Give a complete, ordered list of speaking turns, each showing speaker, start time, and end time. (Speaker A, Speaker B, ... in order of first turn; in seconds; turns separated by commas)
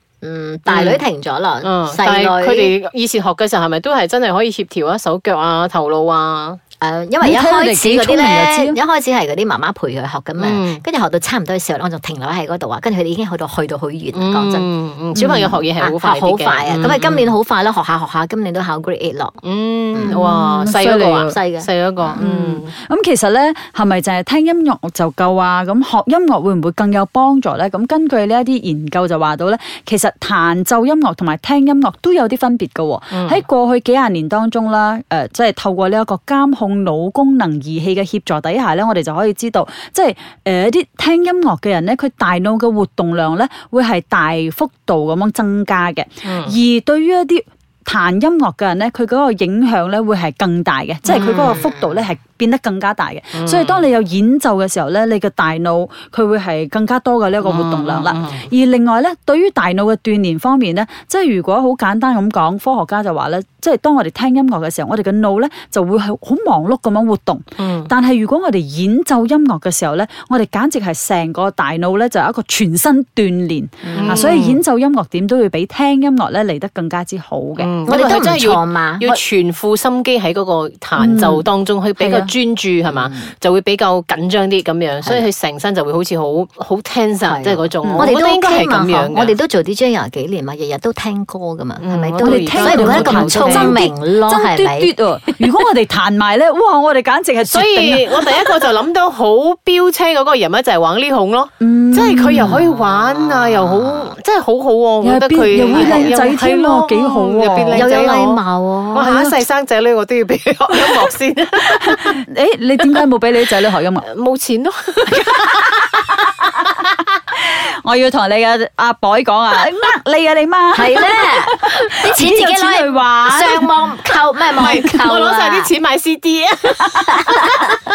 Speaker A: 0.2-2.7, Speaker B: 0.7-1.0, Speaker B: 1.6-6.6, Speaker A: 6.8-19.4, Speaker C: 7.2-8.8, Speaker B: 10.4-10.8, Speaker B: 14.1-17.3, Speaker B: 19.4-22.7, Speaker A: 19.9-20.2, Speaker C: 20.1-21.3, Speaker A: 21.1-22.2, Speaker C: 22.1-77.7, Speaker B: 33.1-33.4, Speaker B: 46.2-46.5, Speaker B: 51.0-51.5, Speaker A: 51.1-52.0, Speaker B: 53.3-53.9, Speaker B: 57.4-58.5, Speaker B: 67.6-67.9, Speaker A: 73.8-74.3, Speaker B: 73.9-74.6, Speaker B: 77.6-89.3, Speaker A: 77.8-79.2, Speaker C: 81.0-81.5, Speaker C: 82.0-82.3, Speaker A: 82.9-83.3, Speaker A: 87.2-94.9, Speaker C: 87.8-88.1, Speaker B: 91.8-93.8, Speaker C: 92.2-98.5, Speaker B: 97.5-108.4, Speaker C: 101.6-102.7, Speaker A: 102.8-104.1, Speaker C: 105.0-107.9, Speaker A: 105.6-106.1, Speaker A: 107.7-109.1, Speaker B: 108.9-112.2, Speaker C: 109.0-109.4, Speaker C: 111.7-114.0, Speaker B: 114.0-116.1, Speaker C: 117.4-123.7, Speaker A: 120.7-125.7, Speaker B: 124.5-127.6